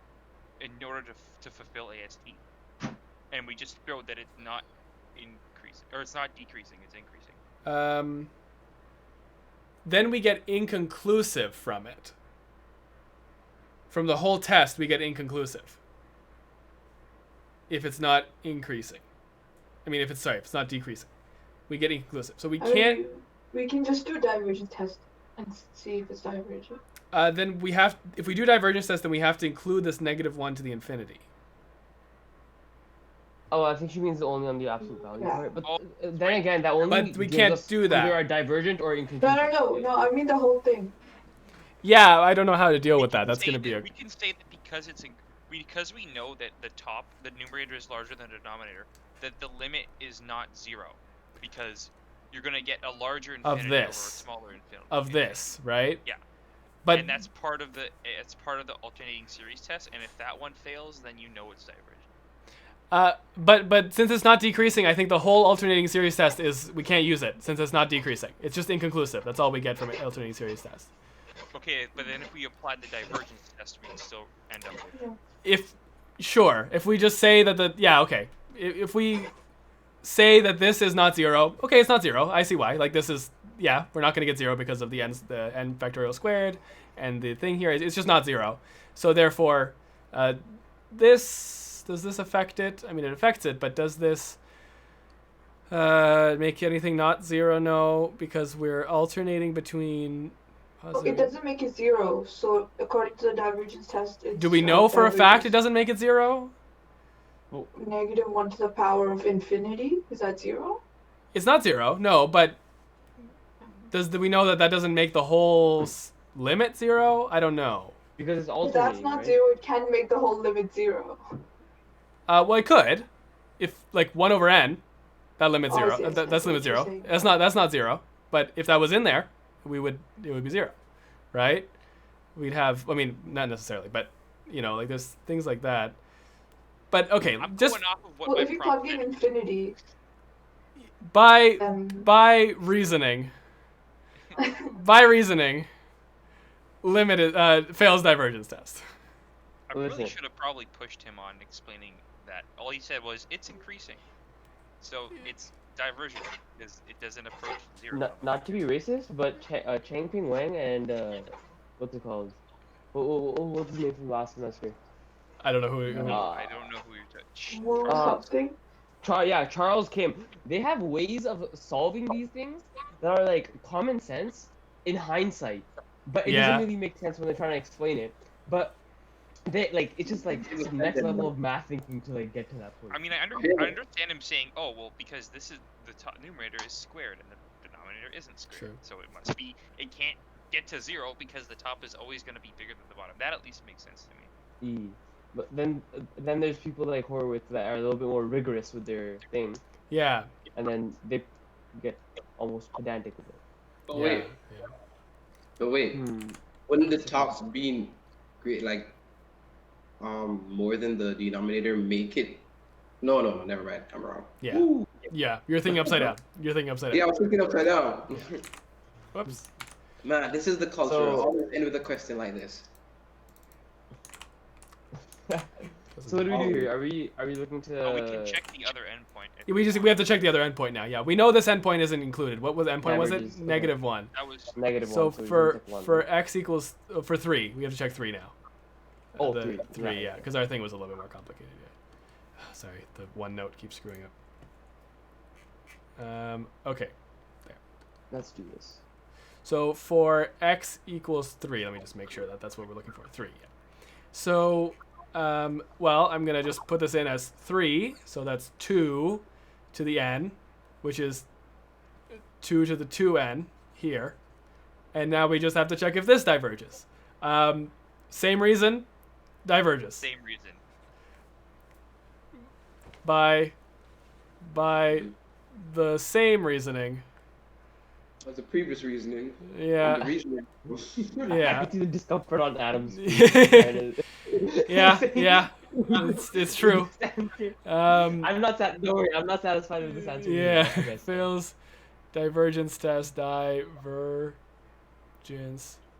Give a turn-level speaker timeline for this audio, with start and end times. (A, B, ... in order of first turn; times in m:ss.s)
0:00.6-0:02.4 A
0:03.3-0:07.4 A
0:07.6-0:08.3 B
0:09.8-0:12.1 B
0:13.9-0:15.8 B
0:17.7-0:19.0 B
0:19.8-0:21.1 B
0:21.7-0:23.0 B
0:22.6-0:26.8 C
0:27.1-0:31.2 B
0:33.5-0:39.9 D
0:35.2-0:35.5 C
0:35.6-0:36.5 A
0:36.8-0:38.2 B
0:39.2-0:40.9 C
0:41.8-0:43.8 B
0:43.0-0:55.5 A
0:53.4-0:54.2 B
0:54.9-0:56.0 B
0:56.8-0:57.1 B
0:56.9-1:02.1 A
1:02.9-1:10.9 B
1:11.5-1:15.0 A
1:15.4-1:19.3 B
1:20.0-1:30.4 B
1:30.9-1:34.4 B
1:35.7-1:41.3 B
1:40.9-1:45.6 C
1:44.4-1:46.5 B
1:47.7-1:50.8 C
1:51.3-1:52.6 B
1:53.9-1:58.0 B
1:58.2-1:59.4 D
1:58.6-2:01.2 C
2:02.3-2:03.1 B
2:03.6-2:04.8 B
2:05.4-2:10.7 B
2:05.7-2:07.1 C
2:11.3-2:11.7 B
2:12.4-2:16.0 B
2:16.9-2:17.8 B
2:17.4-2:19.1 A
2:18.2-2:19.8 C
2:20.8-2:23.3 B
2:21.6-2:22.1 C
2:24.3-2:24.5 A
2:24.6-2:25.7 B
2:26.8-2:28.8 B
2:29.7-2:34.0 A
2:29.7-2:30.2 D
2:34.8-2:38.6 A
2:37.9-2:42.4 D
2:42.9-2:44.8 D
2:45.4-2:46.2 B
2:45.9-2:46.6 D
2:46.0-2:48.2 A
2:47.5-2:48.6 C
2:47.9-2:48.2 D
2:49.0-2:58.8 D
2:56.2-2:56.7 B
2:59.4-3:03.0 D
3:00.0-3:01.3 E
3:02.9-3:14.3 A
3:03.4-3:03.7 E
3:08.5-3:08.8 B
3:14.6-3:19.6 D
3:19.9-3:20.3 B
3:20.5-3:23.4 D
3:23.9-3:24.3 E
3:23.9-3:24.7 B
3:25.6-3:26.0 E
3:25.9-3:26.4 D
3:26.7-3:29.0 E
3:27.0-3:27.3 D
3:30.0-3:32.5 E
3:33.0-3:34.9 E
3:34.4-3:37.0 B
3:35.8-3:36.1 E
3:36.9-3:38.4 E
3:39.1-3:39.5 B
3:40.0-3:42.7 E
3:40.8-3:41.3 D
3:46.0-3:46.3 B
3:46.0-3:48.4 D
3:46.3-3:46.7 E
3:47.8-3:50.1 A
3:49.5-3:54.1 B
3:52.8-3:53.8 D
3:54.1-3:54.5 A
3:54.5-3:56.1 D
3:54.8-3:58.3 B
3:59.1-4:01.7 B
3:59.2-4:00.3 D
4:02.4-4:04.1 B
4:06.0-4:06.9 B
4:08.1-4:08.8 D
4:09.4-4:13.5 B
4:14.1-4:21.2 B
4:22.4-4:24.2 B
4:24.9-4:28.9 B
4:29.4-4:30.1 B
4:30.0-4:30.6 A
4:33.0-4:33.5 B
4:34.4-4:37.0 B
4:38.2-4:41.3 E
4:39.5-4:40.1 B
4:41.2-4:51.3 D
4:41.3-4:41.7 B
4:42.9-4:43.8 B
4:44.6-4:46.9 B
4:47.6-4:48.3 B
4:49.8-4:51.6 B
4:52.1-4:54.4 B
4:55.2-4:55.8 B